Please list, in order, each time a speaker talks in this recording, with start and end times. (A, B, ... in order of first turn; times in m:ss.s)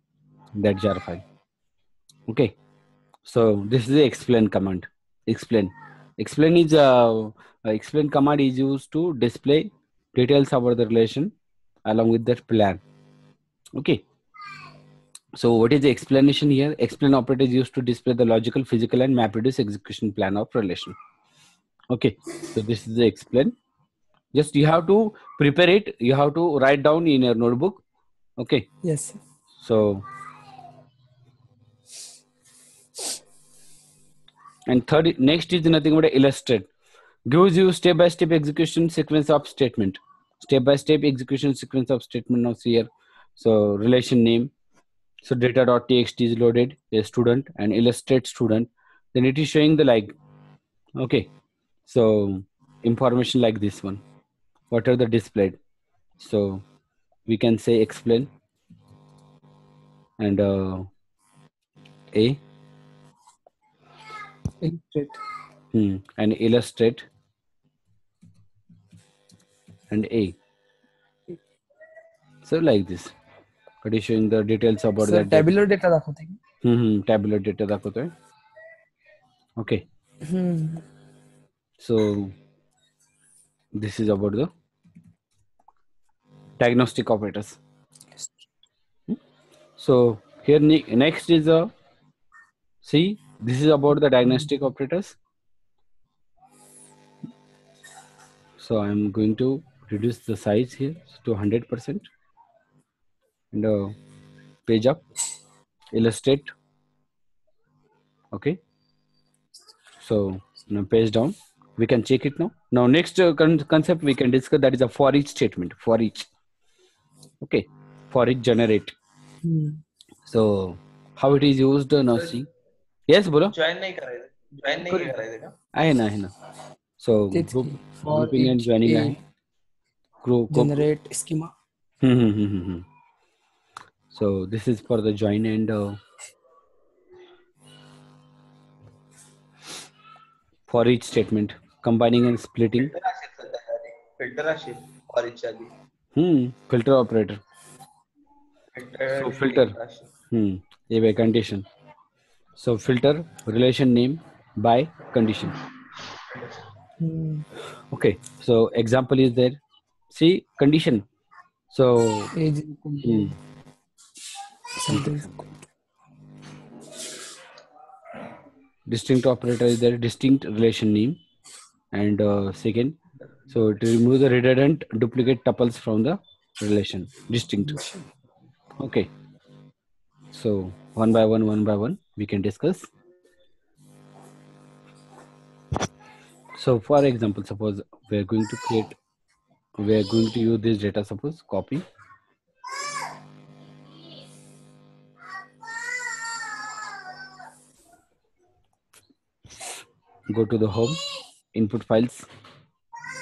0:00.5-0:01.2 A
0:02.3-0:02.5 A
0:03.2-0:11.3 A
0:11.8-0:12.8 A
0:13.7-0:14.0 A
0:15.4-0:21.0 A
0:21.9-0:23.5 A
0:24.3-0:27.8 A
0:28.4-0:28.7 A
0:28.8-0:29.2 B
0:29.6-0:30.0 A
0:34.7-0:36.7 A
0:37.3-0:44.5 A
0:45.2-0:50.2 A
0:51.0-0:51.3 A
0:51.9-0:54.0 A
0:54.7-0:55.6 A
0:56.2-0:56.6 A
0:57.3-0:58.3 A
1:00.2-1:00.9 A
1:02.1-1:02.4 A
1:04.6-1:05.2 B
1:05.7-1:07.0 A
1:09.9-1:10.4 A
1:12.4-1:13.1 A
1:13.8-1:15.5 A
1:15.0-1:16.4 B
1:16.6-1:18.1 A
1:19.6-1:19.8 A
1:20.2-1:20.8 B
1:21.8-1:22.3 A
1:23.7-1:24.5 A
1:26.6-1:27.6 A
1:29.8-1:31.7 A
1:32.8-1:35.2 A
1:38.6-1:42.1 A
1:43.5-1:44.0 A
1:44.6-1:45.0 A
1:45.9-1:46.5 A
1:48.3-1:48.6 A
1:50.0-1:56.3 A
1:57.4-1:58.9 A
1:59.4-1:59.8 B
2:00.3-2:02.5 A
2:03.1-2:03.5 A
2:03.5-2:05.5 C
2:04.8-2:05.1 A
2:05.7-2:06.3 A
2:07.0-2:09.2 A
2:07.3-2:09.2 B
2:10.2-2:10.8 A
2:10.5-2:11.5 B
2:12.0-2:12.8 A
2:14.1-2:16.0 A
2:20.7-2:22.9 A
2:22.8-2:25.7 C
2:26.1-2:27.4 A
2:28.7-2:30.1 C
2:29.2-2:29.7 A
2:30.3-2:31.6 A
2:32.6-2:35.6 A
2:37.0-2:37.4 B
2:37.9-2:39.6 A
2:40.1-2:41.0 A
2:41.7-2:42.3 A
2:42.3-2:43.4 B
2:43.0-2:43.3 A
2:44.8-2:45.5 B
2:44.9-2:45.3 A
2:48.9-2:51.2 A
2:51.9-2:53.0 A
2:53.5-2:57.8 A
2:57.6-2:58.0 B
2:58.8-2:59.1 A
3:00.3-3:02.9 A
3:06.5-3:09.0 A
3:09.8-3:11.8 A
3:20.3-3:21.0 A
3:21.5-3:22.3 A